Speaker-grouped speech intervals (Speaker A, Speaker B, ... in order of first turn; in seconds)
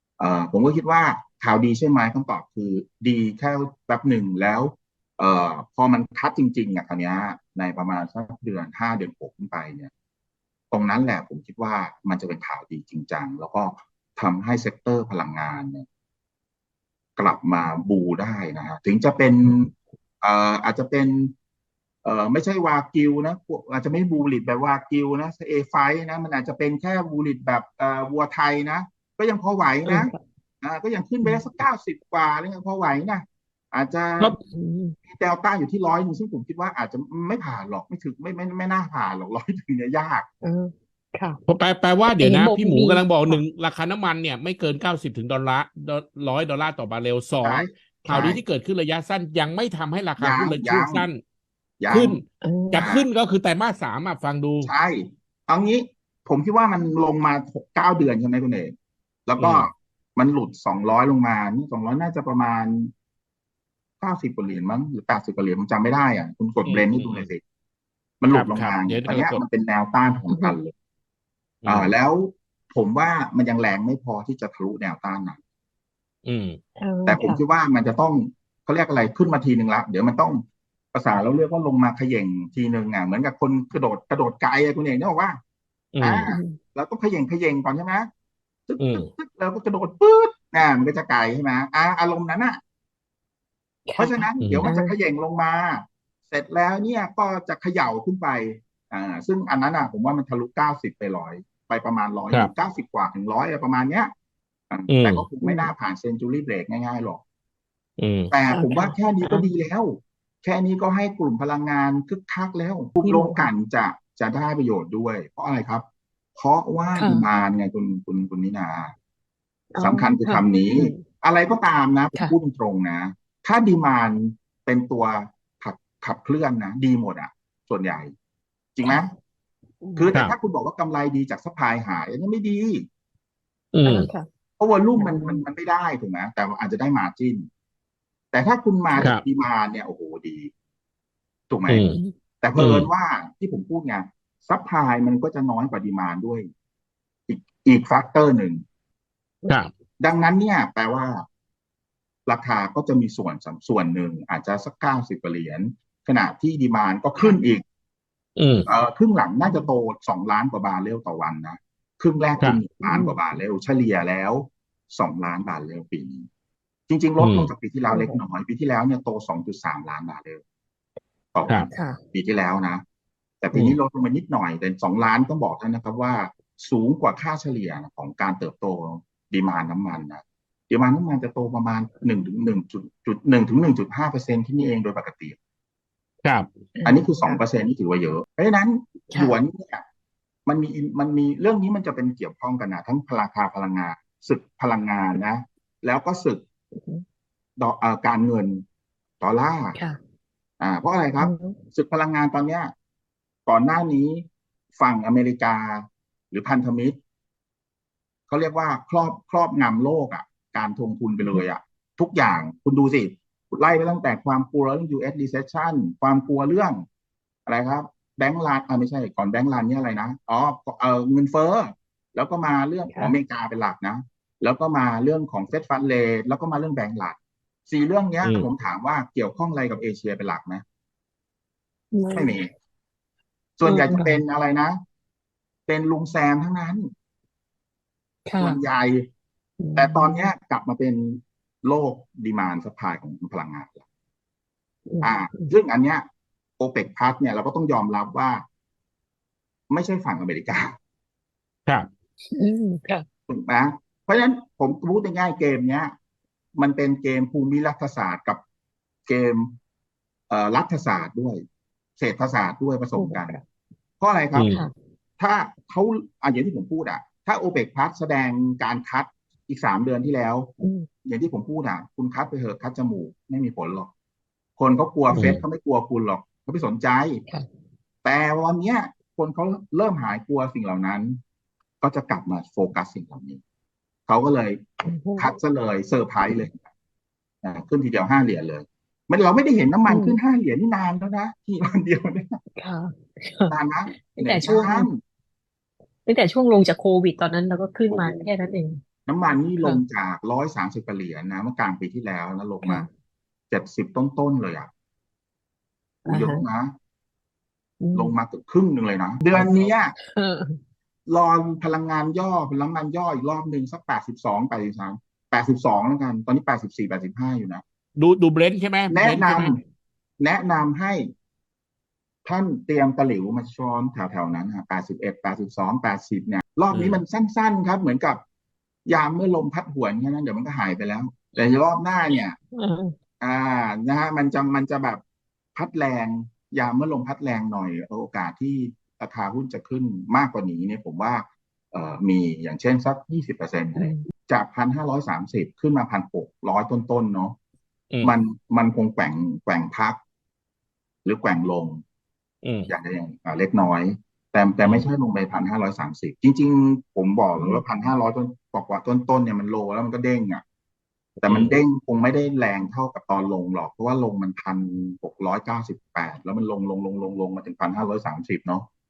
Speaker A: 0.2-9.9, 10.7-15.9, 17.2-21.3, 22.0-34.4, 35.1-40.3, 47.4-48.4, 50.2-51.1, 51.8-52.2, 52.7-53.1, 54.6-58.7, 59.3-62.9, 64.0-67.4, 68.2-70.7, 71.7-75.4, 77.1-80.4, 80.9-85.4, 86.0-88.1, 88.7-92.6, 94.0-104.1, 104.7-107.2, 108.3-115.8, 116.3-118.9, 119.8-128.1, 128.8-129.1, 130.0-132.9, 134.6-137.5, 138.3-140.5, 141.5-141.9, 142.4-146.5, 147.3-148.6, 150.0-151.2, 152.3-157.6, 158.7-166.3, 166.9-170.4, 171.3-172.8, 173.4-185.4, 186.8-189.8, 190.5-196.4, 197.6-198.6, 199.2-199.8, 200.6-202.7, 203.5-204.2, 204.8-207.0, 208.3-216.8, 217.5-230.6, 232.1-232.5, 233.6-234.8, 235.7-236.9, 238.4-239.1, 239.8-243.8, 245.0-246.1, 246.6-248.4, 249.7-250.8, 253.3-255.9, 256.6-258.4, 259.1-259.5, 260.3-261.4, 262.0-263.4, 264.0-264.5, 265.2-270.5, 271.1-273.9, 274.6-277.2, 278.0-281.2, 281.8-283.4, 284.1-284.7, 285.2-286.6, 287.4-292.4, 293.5-295.0, 297.9-298.3, 299.1-302.9, 303.5-304.7, 306.1-306.7, 307.9-309.9, 311.1-317.6, 318.9-319.6, 320.2-321.1, 322.2-328.2, 328.9-332.4, 333.2-335.0, 335.6-347.4, 348.0-350.0, 351.1-351.8, 352.7-360.4, 361.2-368.7
Speaker B: 29.9-30.2, 34.4-35.0, 40.4-41.4, 42.2-43.4, 52.4-52.9, 70.3-70.5, 76.8-77.4, 86.3-86.6, 93.9-94.9, 105.4-105.7, 108.5-109.5, 113.0-113.5, 117.0-117.3, 119.8-121.0, 129.8-130.1, 133.8-134.3, 134.9-135.4, 141.9-142.1, 162.8-163.2, 167.9-168.2, 171.7-172.0, 186.8-187.4, 196.7-197.0, 201.2-201.6, 231.9-232.3, 233.6-234.2, 238.3-238.6, 239.6-240.3, 244.9-245.5, 252.3-253.1, 262.9-263.4, 270.6-270.9, 284.9-285.3, 289.9-290.2, 292.6-294.9, 296.1-298.8, 306.1-306.4, 307.8-308.1, 309.3-310.6, 332.6-332.9, 343.8-344.1
Speaker C: 41.5-51.2, 51.9-54.7, 59.4-59.7, 66.7-67.3, 68.3-69.4, 71.6-71.9, 76.2-76.6, 85.9-86.3, 88.8-89.1, 94.4-94.7, 104.9-105.3, 108.0-108.3, 133.7-134.1, 141.7-142.0, 142.6-142.9, 158.4-158.7, 167.2-167.5, 173.5-173.8, 228.2-228.5, 264.4-264.6, 318.0-319.6, 326.7-327.0, 352.4-352.7, 354.6-354.9, 361.3-361.6